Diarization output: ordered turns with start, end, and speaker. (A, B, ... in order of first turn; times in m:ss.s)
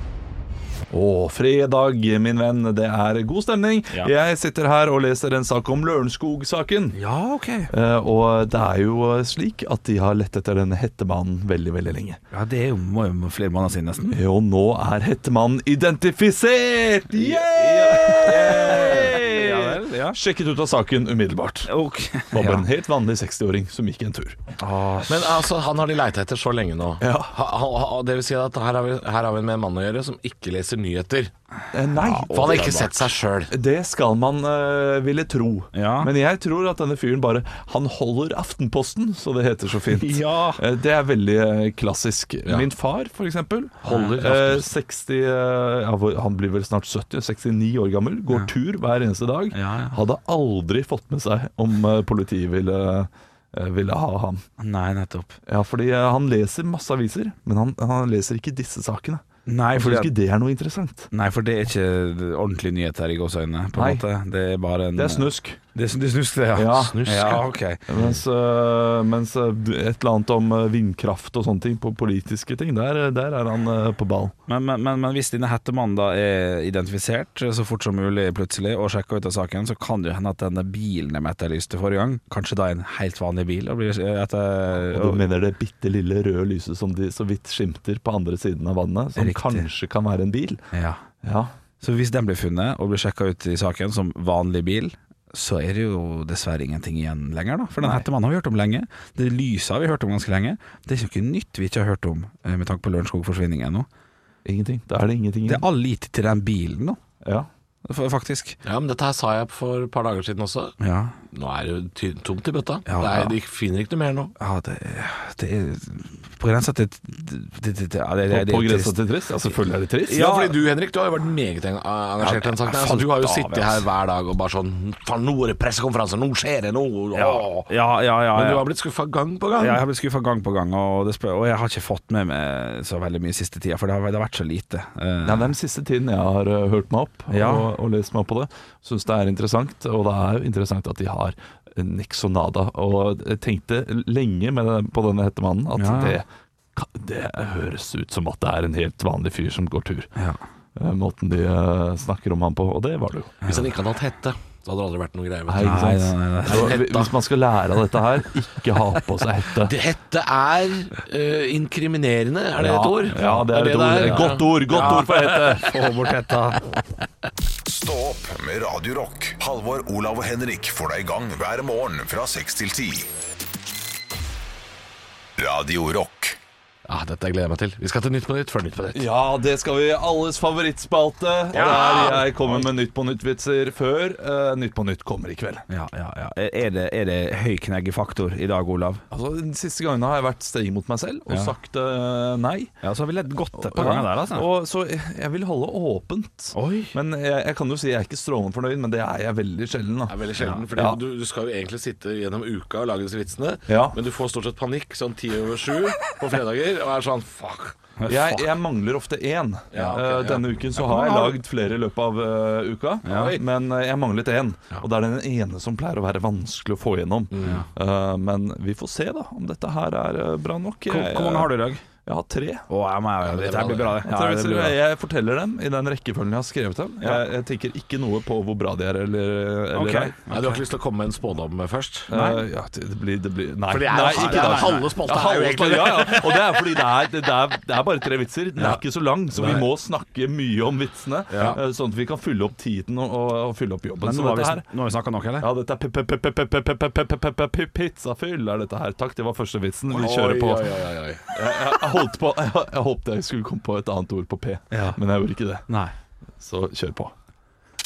0:00.9-0:07.0 A
0:07.0-0:07.7 B
0:07.7-0:12.2 A
0:12.3-0:14.2 B
0:14.1-0:21.7 A
0:17.2-0:20.2 B
0:18.6-0:19.1 C
0:21.7-0:22.7 B
0:22.3-0:24.4 A
0:24.6-0:25.4 B
0:25.1-0:31.3 C
0:27.0-0:27.4 A
0:31.7-0:32.9 A
0:32.0-0:32.9 B
0:32.3-0:33.5 C
0:33.5-0:54.4 A
0:35.7-0:36.1 B
0:40.0-0:40.6 B
0:43.8-0:44.2 B
0:43.9-0:44.6 C
0:49.5-0:50.0 B
0:54.6-0:55.4 B
0:55.5-1:01.1 A
0:59.5-1:00.1 B
1:01.1-1:07.8 B
1:03.8-1:04.0 A
1:05.0-1:05.6 A
1:06.6-1:07.0 A
1:06.9-1:07.4 C
1:07.9-1:14.3 A
1:14.5-1:25.2 B
1:24.9-1:30.6 A
1:29.2-1:29.7 B
1:30.7-1:31.0 B
1:31.2-1:31.5 A
1:31.8-1:43.9 B
1:37.8-1:38.1 A
1:44.4-1:45.7 A
1:45.5-1:47.0 B
1:47.2-1:47.5 A
1:47.9-1:48.6 B
1:48.6-1:50.8 C
1:50.8-1:51.1 B
1:51.3-1:54.3 C
1:52.9-1:53.3 B
1:54.4-1:59.0 B
1:58.3-2:00.2 A
2:00.1-2:00.6 B
2:00.1-2:07.7 C
2:02.2-2:03.8 B
2:07.2-2:08.7 B
2:08.3-2:09.8 C
2:09.6-2:15.5 B
2:15.2-2:30.1 A
2:17.3-2:17.7 B
2:25.8-2:26.2 B
2:30.2-2:30.4 B
2:30.8-2:33.4 A
2:33.5-2:37.2 C
2:35.5-2:39.7 A
2:35.6-2:36.8 B
2:39.6-2:45.6 C
2:42.6-2:45.7 A
2:43.1-2:43.5 B
2:44.0-2:46.7 B
2:47.6-2:53.1 D
2:55.4-2:56.4 D
2:56.9-2:59.1 C
2:58.9-3:05.7 A
3:01.5-3:02.6 C
3:05.7-3:09.0 B
3:09.1-3:12.7 A
3:12.8-3:14.5 B
3:13.6-3:20.2 A
3:16.5-3:17.0 B
3:20.1-3:27.8 C
3:20.7-3:21.0 A
3:23.7-3:24.0 A
3:28.0-3:28.5 B
3:28.1-3:41.5 A
3:29.7-3:30.5 C
3:30.8-3:31.4 B
3:33.1-3:33.4 B
3:33.1-3:33.4 C
3:37.3-3:37.6 C
3:40.9-3:41.8 B
3:42.1-3:42.7 A
3:42.7-3:44.8 B
3:43.2-3:44.0 C
3:44.0-3:50.2 A
3:49.7-3:50.6 B
3:50.3-3:52.1 C
3:52.1-4:04.7 A
3:52.1-3:52.4 B
3:53.7-3:56.7 C
3:54.1-3:54.8 B
3:59.4-3:59.6 B
4:01.3-4:01.6 B
4:01.3-4:01.6 C
4:04.0-4:05.5 B
4:05.4-4:10.8 A
4:09.9-4:11.3 C
4:11.3-4:15.7 A
4:14.7-4:15.0 B
4:15.7-4:15.9 B
4:16.4-4:17.1 A